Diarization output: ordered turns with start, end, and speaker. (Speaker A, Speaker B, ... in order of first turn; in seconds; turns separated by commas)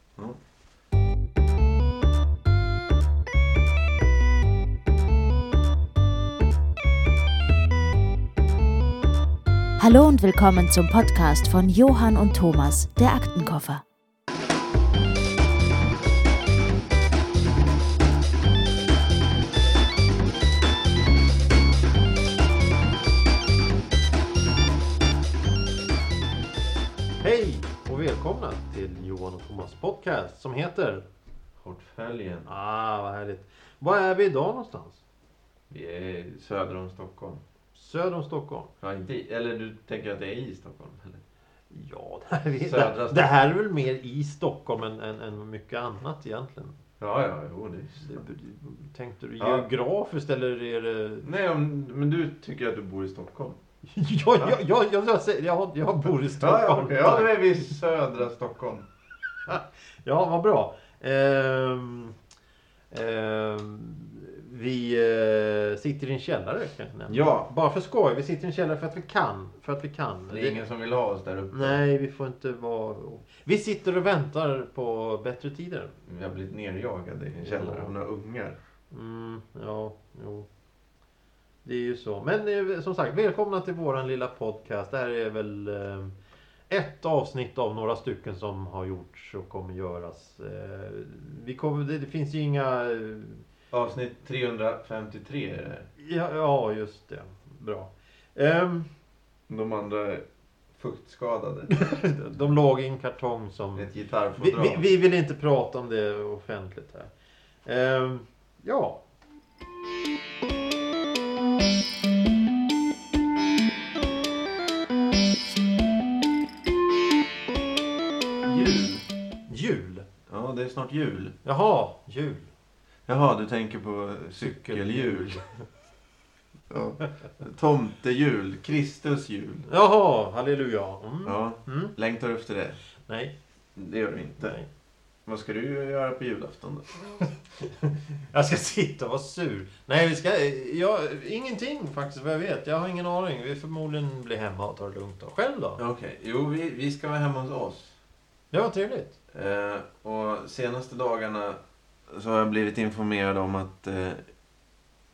Speaker A: 9.8-13.8, Speaker B: 27.2-31.1, Speaker C: 31.6-32.5, Speaker B: 32.5-35.0, Speaker C: 35.7-37.4, Speaker B: 37.8-38.7, Speaker C: 38.8-41.2, Speaker B: 41.7-46.8, Speaker C: 42.6-43.3, Speaker C: 47.0-48.2, Speaker B: 48.0-51.2, Speaker C: 49.4-49.7, Speaker C: 51.2-53.6, Speaker B: 53.9-57.6, Speaker C: 56.4-58.9, Speaker B: 59.5-62.2, Speaker B: 62.9-70.6, Speaker C: 67.1-67.5, Speaker C: 70.3-71.8, Speaker B: 71.5-75.9, Speaker C: 76.1-78.6, Speaker B: 77.4-77.9, Speaker B: 78.9-80.5, Speaker B: 81.7-86.2, Speaker B: 86.7-93.5, Speaker C: 93.7-95.9, Speaker B: 96.0-98.9, Speaker C: 99.5-101.8, Speaker B: 101.7-107.1, Speaker C: 103.8-104.8, Speaker B: 107.7-109.0, Speaker C: 118.5-119.0, Speaker B: 119.5-120.1, Speaker C: 120.3-121.3, Speaker B: 121.4-122.5, Speaker C: 123.1-125.4, Speaker B: 124.4-125.5, Speaker C: 126.7-129.7, Speaker B: 129.7-131.9, Speaker C: 131.2-132.8, Speaker B: 133.1-133.3, Speaker C: 133.8-134.6, Speaker B: 134.4-134.7, Speaker C: 135.3-137.0, Speaker B: 137.2-145.8, Speaker C: 145.8-148.0, Speaker B: 148.5-149.1, Speaker C: 149.3-154.2